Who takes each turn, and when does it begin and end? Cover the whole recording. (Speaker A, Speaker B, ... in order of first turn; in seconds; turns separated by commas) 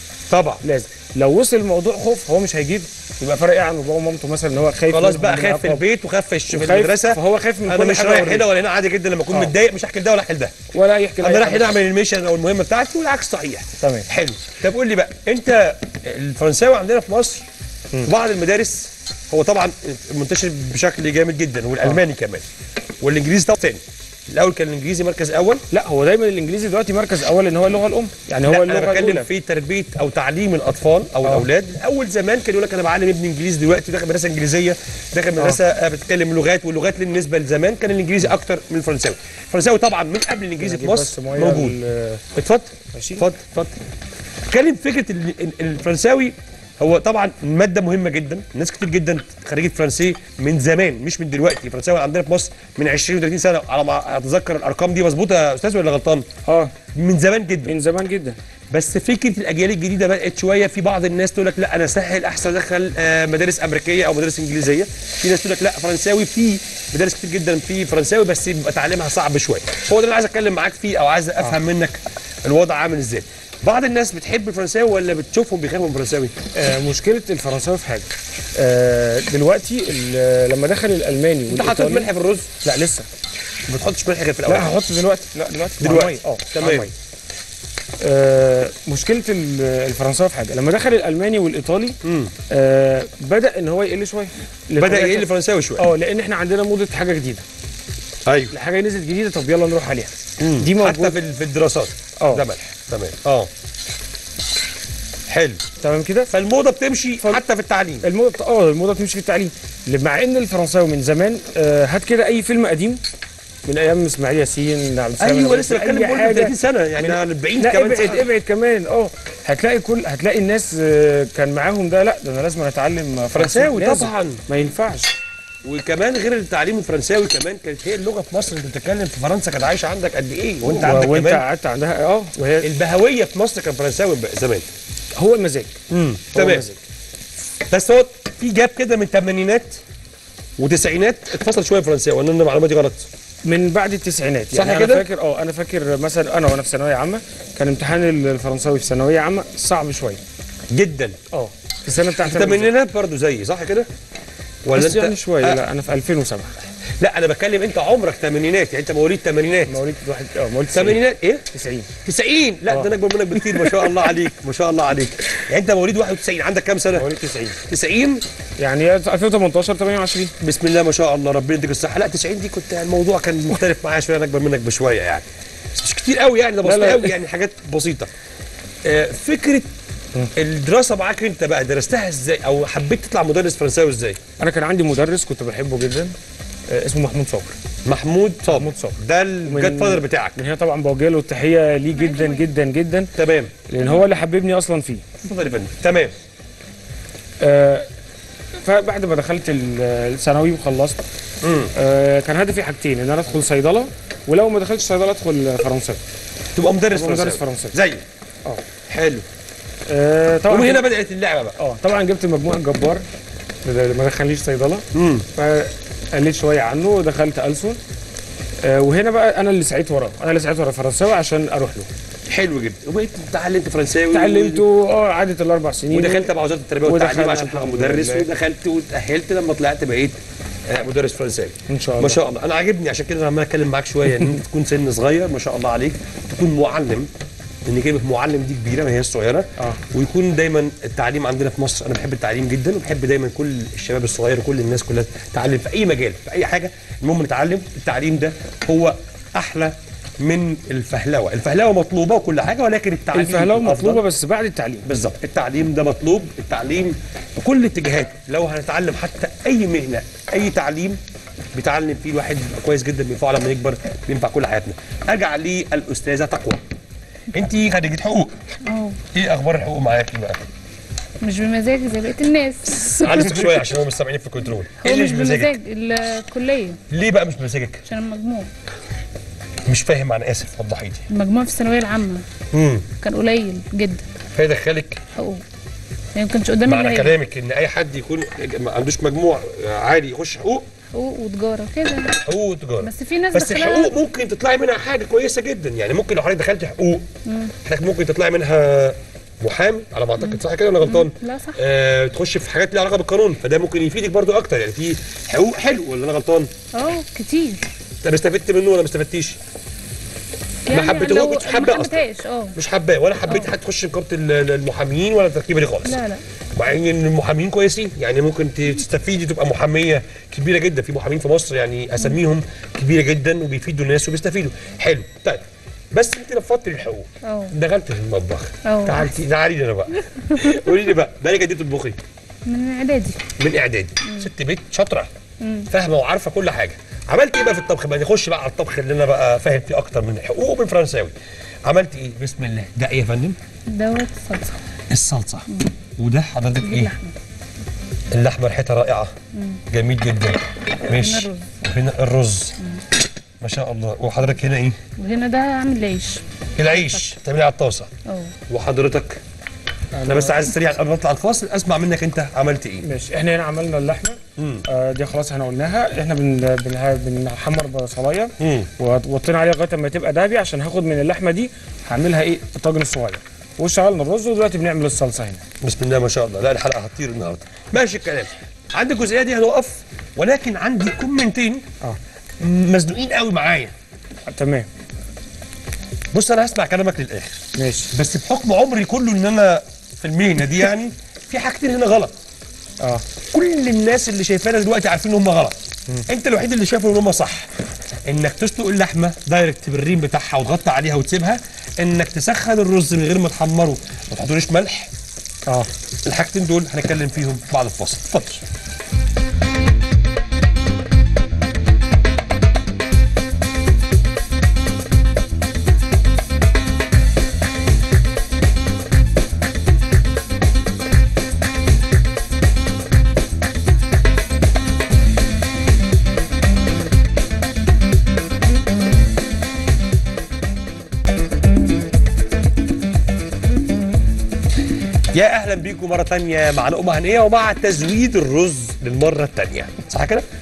Speaker A: 0.3-0.6, Speaker B: 0.6-5.8, Speaker A: 4.9-10.6, Speaker B: 6.5-8.5, Speaker B: 10.7-11.7, Speaker A: 11.2-17.5, Speaker B: 13.8-14.1, Speaker A: 18.0-22.4, Speaker A: 23.0-25.6, Speaker B: 25.7-29.3, Speaker A: 28.4-41.8, Speaker B: 40.6-42.2, Speaker A: 42.3-43.8, Speaker B: 42.9-43.2, Speaker A: 44.5-56.3, Speaker B: 56.5-56.7, Speaker A: 56.9-57.8, Speaker B: 57.6-58.4, Speaker A: 58.7-76.3, Speaker B: 76.5-82.1, Speaker A: 81.5-82.5, Speaker B: 82.6-83.1, Speaker A: 83.7-84.8, Speaker B: 84.5-86.9, Speaker A: 85.8-86.9, Speaker B: 88.0-92.0, Speaker A: 92.0-92.3, Speaker B: 92.5-97.4, Speaker A: 94.8-95.9, Speaker A: 98.2-98.5, Speaker B: 98.5-101.2, Speaker A: 100.4-103.5, Speaker B: 102.2-102.5, Speaker A: 105.3-105.6, Speaker B: 105.8-106.3, Speaker A: 106.3-108.1, Speaker B: 108.0-113.0, Speaker B: 113.7-125.2, Speaker A: 115.2-118.3, Speaker A: 123.3-124.4, Speaker A: 125.6-131.4, Speaker B: 130.6-132.7, Speaker A: 132.6-134.7, Speaker B: 135.2-135.8, Speaker A: 135.9-136.7, Speaker B: 136.3-136.7, Speaker A: 137.5-139.8, Speaker A: 140.6-143.1, Speaker B: 143.5-150.2, Speaker A: 144.5-145.1, Speaker A: 150.7-151.2, Speaker B: 151.3-152.7, Speaker A: 152.2-153.9, Speaker A: 154.7-155.6, Speaker B: 154.7-156.6, Speaker A: 157.0-159.8, Speaker B: 159.7-161.9, Speaker A: 160.7-161.4, Speaker A: 162.1-167.1, Speaker B: 162.7-162.9, Speaker B: 163.6-163.9, Speaker B: 166.9-167.6, Speaker A: 167.7-168.2, Speaker B: 168.6-170.3, Speaker A: 170.4-178.1, Speaker B: 176.6-177.1, Speaker A: 178.8-179.7, Speaker A: 180.3-184.2, Speaker B: 184.4-186.2, Speaker B: 186.7-187.6, Speaker A: 187.8-190.4, Speaker B: 188.5-193.1, Speaker C: 192.0-192.5, Speaker A: 193.2-193.5, Speaker B: 193.7-195.1, Speaker A: 195.2-196.1, Speaker B: 197.4-197.9, Speaker B: 198.6-201.0, Speaker A: 201.4-201.7, Speaker B: 201.7-206.0, Speaker A: 206.6-208.0, Speaker B: 206.9-207.8, Speaker A: 208.9-209.2, Speaker B: 209.9-210.9, Speaker A: 210.5-211.6, Speaker B: 211.6-213.1, Speaker B: 213.6-214.8, Speaker A: 214.9-215.2, Speaker B: 215.4-217.8, Speaker B: 218.6-221.9, Speaker A: 222.3-224.7, Speaker B: 224.1-226.3, Speaker A: 225.9-230.2, Speaker B: 226.8-228.3, Speaker A: 230.7-237.1, Speaker B: 231.7-232.2, Speaker A: 237.7-254.0, Speaker B: 253.1-254.9, Speaker A: 254.8-261.0, Speaker A: 261.5-266.6, Speaker A: 267.3-268.4, Speaker C: 268.6-269.0, Speaker A: 269.1-270.4, Speaker C: 271.2-273.6, Speaker A: 272.6-275.5, Speaker C: 274.8-276.8, Speaker A: 276.9-277.8, Speaker C: 277.9-278.5, Speaker A: 279.7-281.0, Speaker C: 281.1-282.2, Speaker A: 282.5-282.9, Speaker C: 283.0-284.0, Speaker A: 284.4-285.0, Speaker C: 285.1-285.4, Speaker C: 286.1-287.1, Speaker A: 286.6-290.6, Speaker C: 290.9-292.2, Speaker A: 292.2-297.1, Speaker C: 292.8-293.9, Speaker C: 297.2-297.5, Speaker A: 297.6-306.5, Speaker C: 300.2-301.6, Speaker C: 306.7-307.6, Speaker A: 308.0-309.4, Speaker C: 310.7-312.6, Speaker A: 310.7-312.0, Speaker A: 312.6-316.0, Speaker C: 315.9-316.2, Speaker A: 316.5-332.0, Speaker C: 327.2-327.5, Speaker C: 328.6-329.1, Speaker C: 330.3-330.6, Speaker C: 332.4-333.2, Speaker A: 333.4-335.1, Speaker C: 335.4-335.7, Speaker A: 335.7-341.1, Speaker A: 341.7-343.4, Speaker C: 343.7-344.6, Speaker A: 344.9-346.9, Speaker C: 346.6-347.1, Speaker A: 348.1-349.1, Speaker C: 349.3-349.6, Speaker A: 349.7-352.6, Speaker C: 350.8-351.5, Speaker A: 353.4-354.8, Speaker C: 355.0-356.2, Speaker A: 356.6-357.9, Speaker C: 358.1-358.3, Speaker A: 358.5-359.2, Speaker B: 359.9-360.4, Speaker A: 360.1-362.9, Speaker B: 362.8-375.4, Speaker A: 364.4-364.6, Speaker A: 368.4-368.7, Speaker A: 375.6-381.7, Speaker A: 382.4-383.7, Speaker B: 384.3-384.7, Speaker A: 386.1-387.4, Speaker B: 387.6-387.9, Speaker A: 387.9-392.1, Speaker A: 393.3-397.5, Speaker A: 398.1-404.9, Speaker A: 406.0-408.4, Speaker A: 435.1-440.2